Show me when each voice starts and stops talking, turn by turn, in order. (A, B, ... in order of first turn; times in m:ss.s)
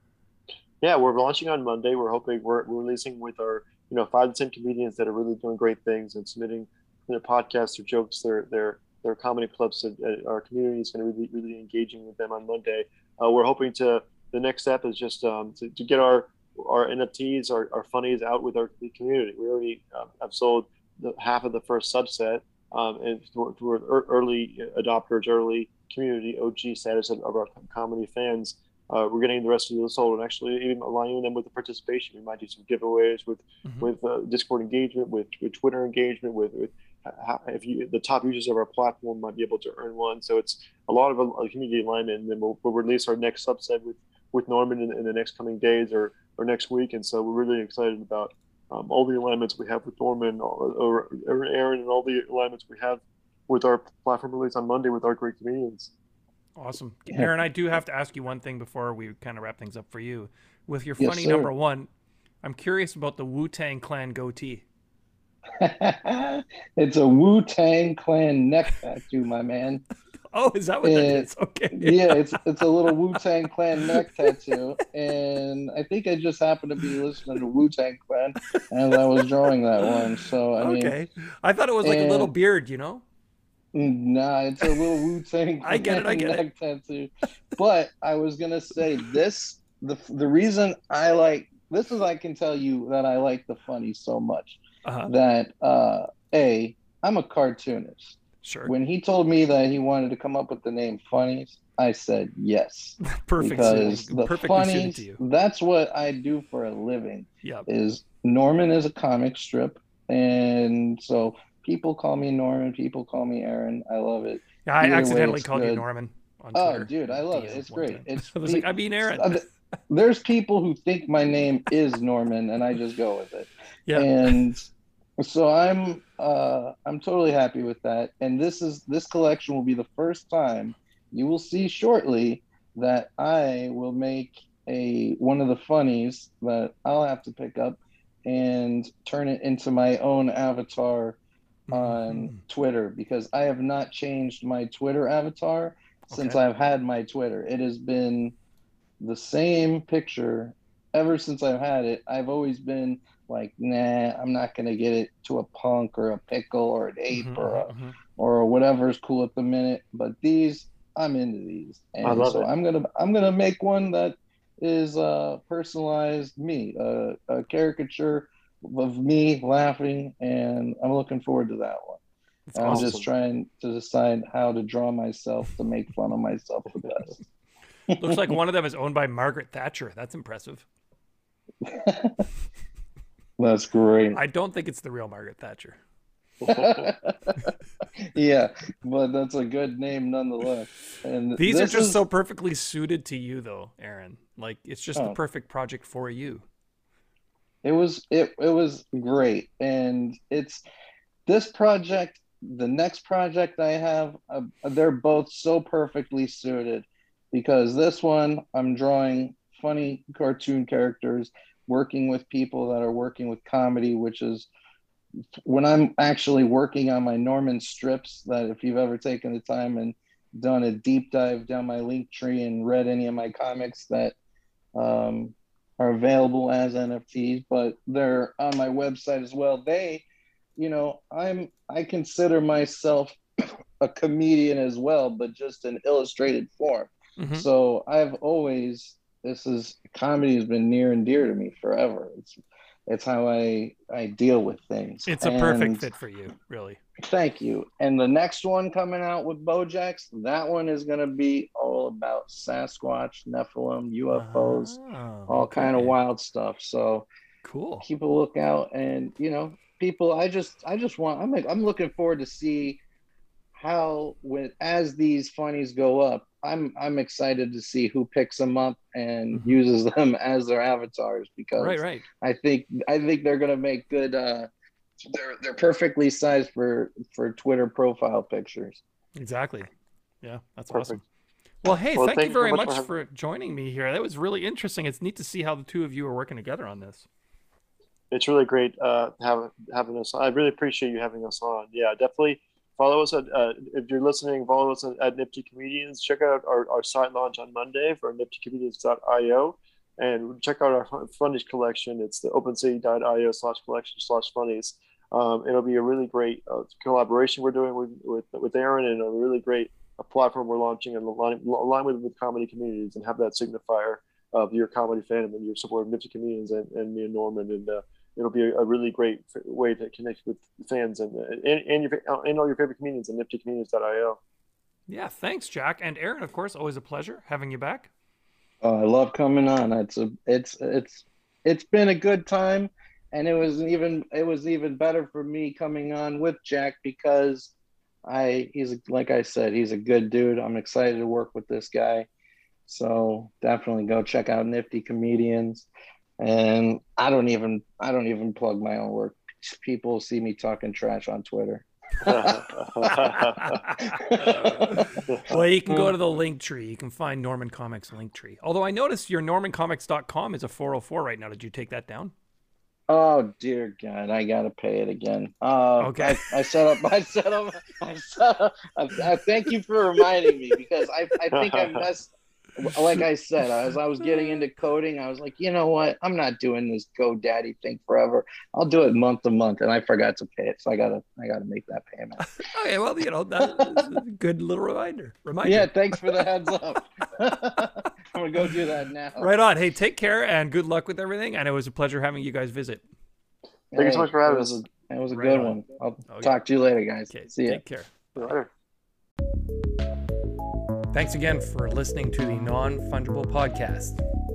0:00.8-0:55.9 A
0:33.6-0:33.9 B
0:56.6-1:01.9 B
1:01.0-1:01.5 C
1:02.4-1:04.6 B
1:05.6-1:09.8 C
1:10.3-1:13.2 B
1:10.8-1:20.9 C
1:13.8-1:14.3 B
1:18.6-1:19.0 B
1:19.7-1:23.0 B
1:21.8-1:22.3 C
1:23.7-1:55.8 C
1:25.6-1:26.4 B
1:34.8-1:35.1 B
1:38.4-1:38.7 B
1:43.0-1:45.2 B
1:54.6-1:59.5 B
1:56.5-2:04.6 C
2:03.9-2:04.4 B
2:05.2-2:21.2 C
2:21.7-2:22.4 B
2:21.7-2:28.3 C
2:26.1-2:26.4 B
2:29.0-2:52.0 C
2:37.1-2:38.0 B
2:42.0-2:42.5 A
2:52.5-2:53.0 B
2:52.6-2:57.1 C
2:52.7-2:53.1 A
2:57.9-2:58.4 C
2:57.9-3:00.6 B
3:01.6-3:02.2 C
3:03.4-3:04.2 C
3:04.1-3:05.8 B
3:06.4-3:06.9 A
3:06.5-3:07.5 C
3:08.0-3:12.0 C
3:11.4-3:16.4 B
3:17.6-3:20.6 C
3:21.2-3:34.5 C
3:35.4-3:44.1 C
3:44.8-3:50.0 C
3:50.6-4:05.9 C
3:57.2-3:57.5 B
4:05.0-4:06.8 B
4:07.0-4:14.7 C
4:14.1-4:16.0 B
4:15.3-4:17.1 C
4:17.4-4:17.8 B
4:17.8-4:22.8 C
4:23.5-4:34.5 C
4:31.6-4:32.0 B
4:35.0-4:38.8 C
4:39.2-4:39.7 B
4:40.2-4:41.0 B
4:40.7-4:41.0 A
4:41.6-4:47.1 B
4:41.8-4:42.9 A
4:48.1-5:24.2 A
5:24.9-5:27.9 B
5:28.6-5:37.5 C
5:38.0-5:42.1 C
5:42.7-5:45.7 C
5:46.2-5:53.0 C
5:52.0-5:53.6 A
5:52.8-6:02.1 B
5:53.8-5:55.0 C
5:55.0-5:55.9 A
6:02.9-6:22.2 C
6:05.8-6:06.3 B
6:11.3-6:11.9 A
6:22.2-6:26.2 B
6:23.4-6:23.8 C
6:25.4-6:29.3 C
6:29.2-6:32.8 B
6:33.7-6:37.6 C
6:33.7-6:34.6 A
6:35.1-6:36.4 B
6:37.1-6:38.3 B
6:38.2-6:38.5 A
6:40.9-6:44.0 B